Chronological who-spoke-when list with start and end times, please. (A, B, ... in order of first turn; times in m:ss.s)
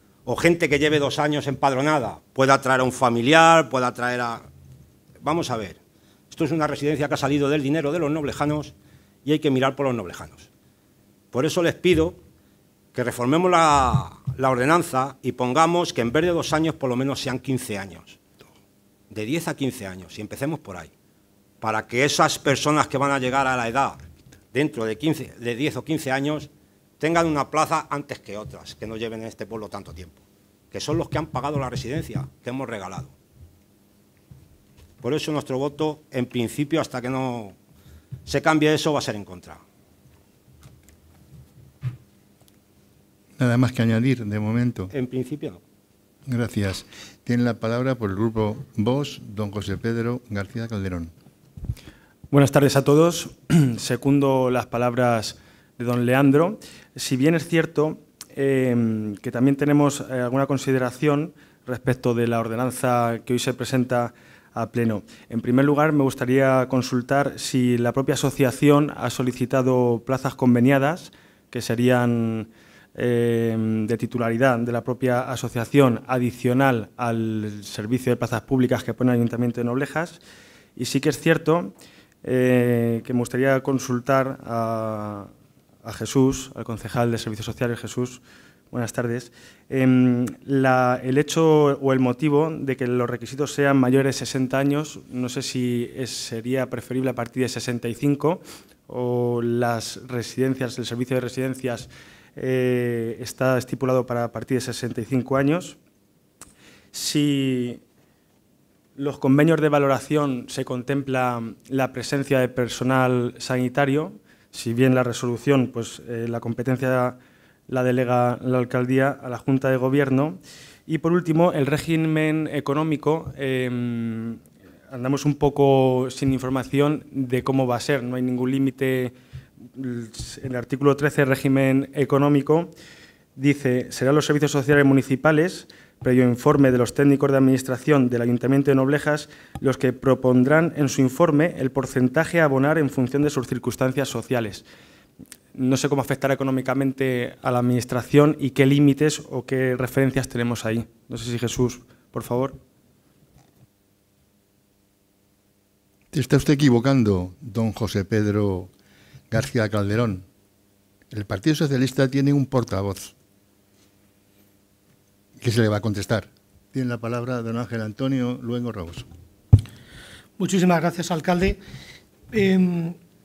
0:00.2-0:04.5 A
0:05.2-0:05.8 A
0:06.3-0:10.5 A
0:11.3-0:12.2 A
0:12.9-0:18.2 A
0:19.1-0:20.9 A
0:21.6-0:24.0 A
0:24.5-0:30.2 A
0:30.7-0:33.1 A
0:35.0-0:37.6 A
0:38.3-0:39.6 A
0:43.4-0:44.9 B
0:44.9-0:45.6 A
0:46.3-0:51.1 B
0:52.3-1:20.2 C
1:20.8-1:21.7 C
1:22.2-1:25.3 C
1:25.8-1:45.8 C
1:46.9-1:47.8 C
1:49.0-1:57.2 C
1:57.7-2:09.1 C
2:09.7-2:12.7 C
2:13.4-2:24.6 C
2:25.5-2:32.6 C
2:36.1-2:38.7 B
2:39.3-2:40.2 B
2:41.1-2:43.1 B
2:45.4-2:49.1 B
2:50.4-2:51.6 D
2:52.3-2:53.0 D